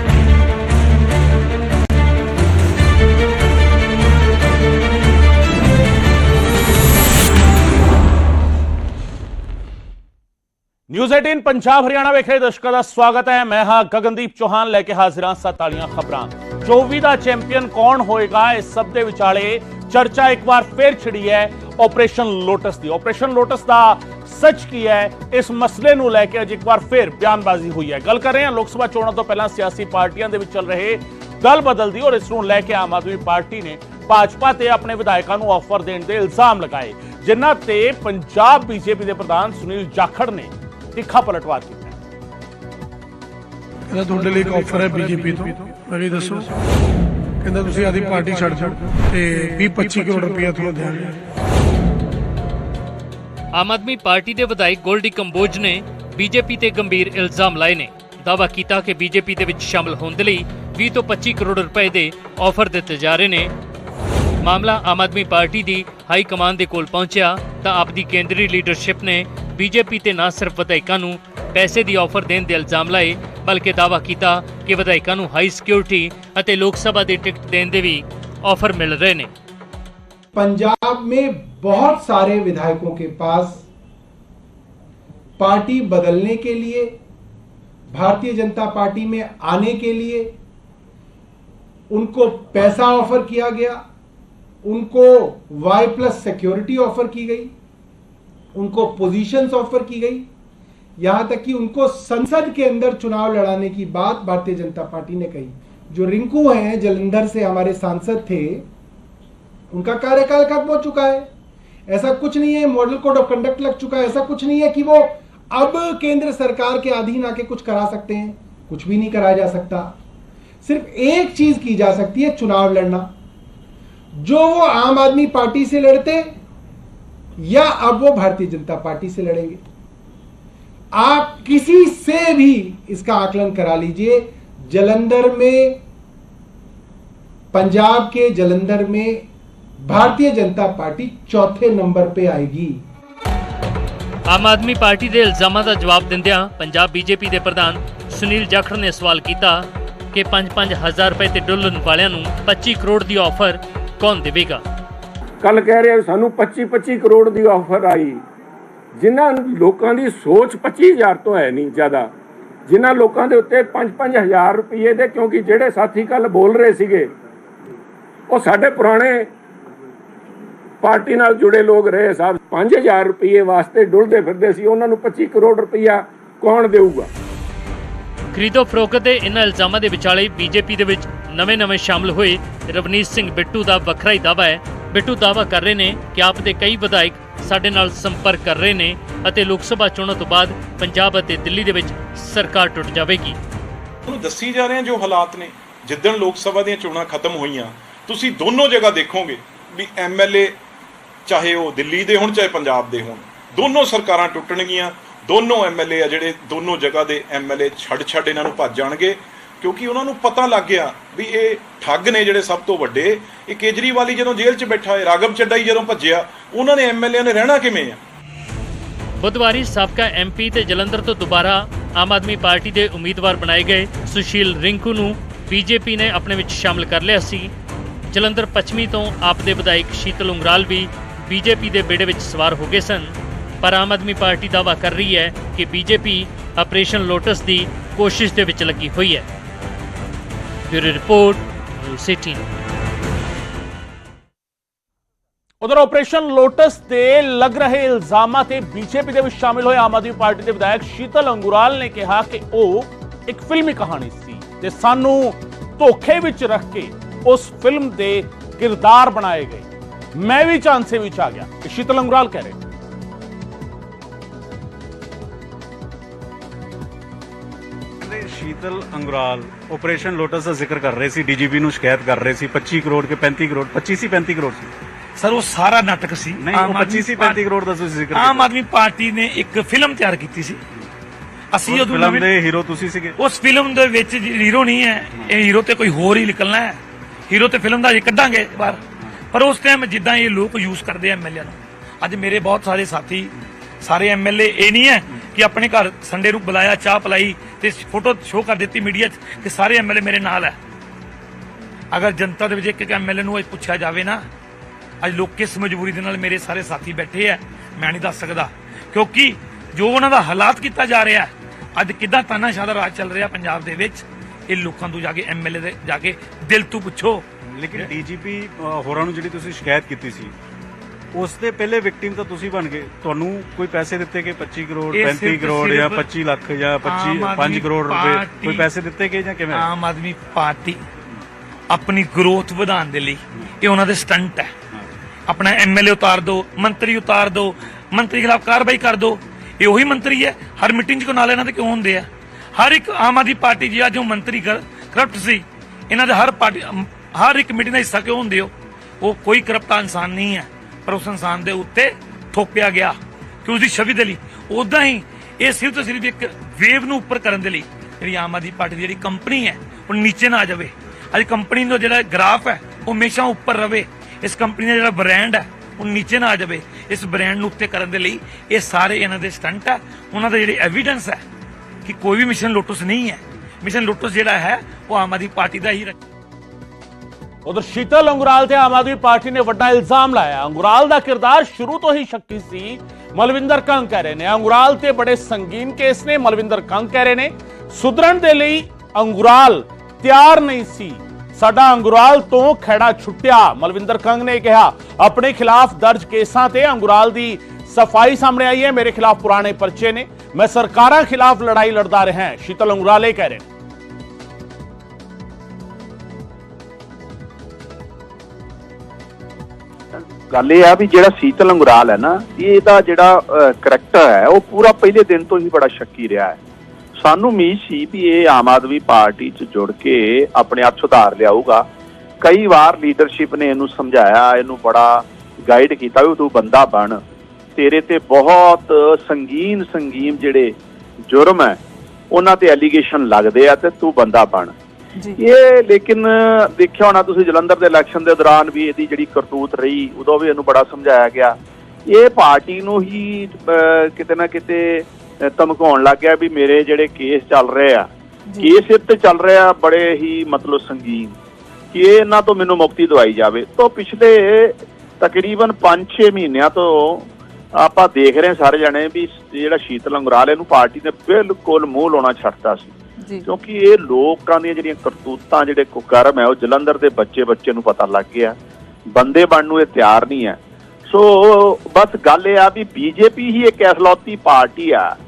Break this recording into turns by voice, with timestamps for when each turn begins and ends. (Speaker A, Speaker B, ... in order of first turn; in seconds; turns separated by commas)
Speaker A: 10.9-42.0, Speaker B: 43.9-46.4, Speaker B: 47.4-51.1, Speaker C: 53.5-63.5, Speaker C: 64.4-79.3, Speaker D: 80.3-83.7, Speaker D: 85.4-87.0, Speaker D: 87.9-90.3, Speaker D: 91.9-93.8, Speaker D: 94.6-97.5, Speaker D: 98.5-100.3, Speaker D: 101.0-108.7, Speaker D: 109.7-111.3, Speaker D: 111.9-119.9, Speaker D: 120.6-123.1, Speaker D: 124.1-126.3, Speaker D: 127.4-129.6, Speaker D: 130.9-135.8, Speaker D: 137.5-139.3, Speaker D: 139.8-142.8, Speaker C: 144.3-154.6, Speaker E: 155.4-158.2, Speaker E: 158.9-162.1, Speaker E: 162.7-167.1, Speaker E: 168.3-169.3, Speaker E: 170.8-177.1, Speaker C: 178.3-193.4, Speaker F: 194.1-200.6, Speaker F: 201.2-218.0, Speaker C: 219.2-227.5, Speaker C: 228.1-239.3, Speaker C: 240.7-242.4, Speaker A: 245.6-262.6, Speaker G: 268.0-274.7, Speaker H: 275.2-277.4, Speaker G: 276.4-278.5, Speaker H: 278.1-280.6, Speaker H: 281.5-282.3, Speaker G: 281.6-283.1, Speaker H: 283.2-300.6, Speaker H: 301.9-304.2, Speaker H: 305.0-317.2, Speaker G: 317.4-320.3, Speaker G: 321.1-329.7, Speaker H: 324.9-326.1, Speaker H: 326.8-328.7, Speaker H: 329.5-330.8, Speaker H: 331.7-334.5, Speaker H: 335.3-371.2, Speaker H: 371.8-376.0, Speaker A: 377.4-403.5, Speaker I: 410.3-416.4, Speaker I: 417.0-421.6, Speaker I: 422.2-427.0, Speaker I: 427.6-430.6, Speaker I: 431.1-431.6, Speaker I: 432.1-434.5, Speaker I: 435.1-441.4, Speaker I: 441.9-451.1, Speaker I: 451.7-468.4, Speaker I: 468.9-474.9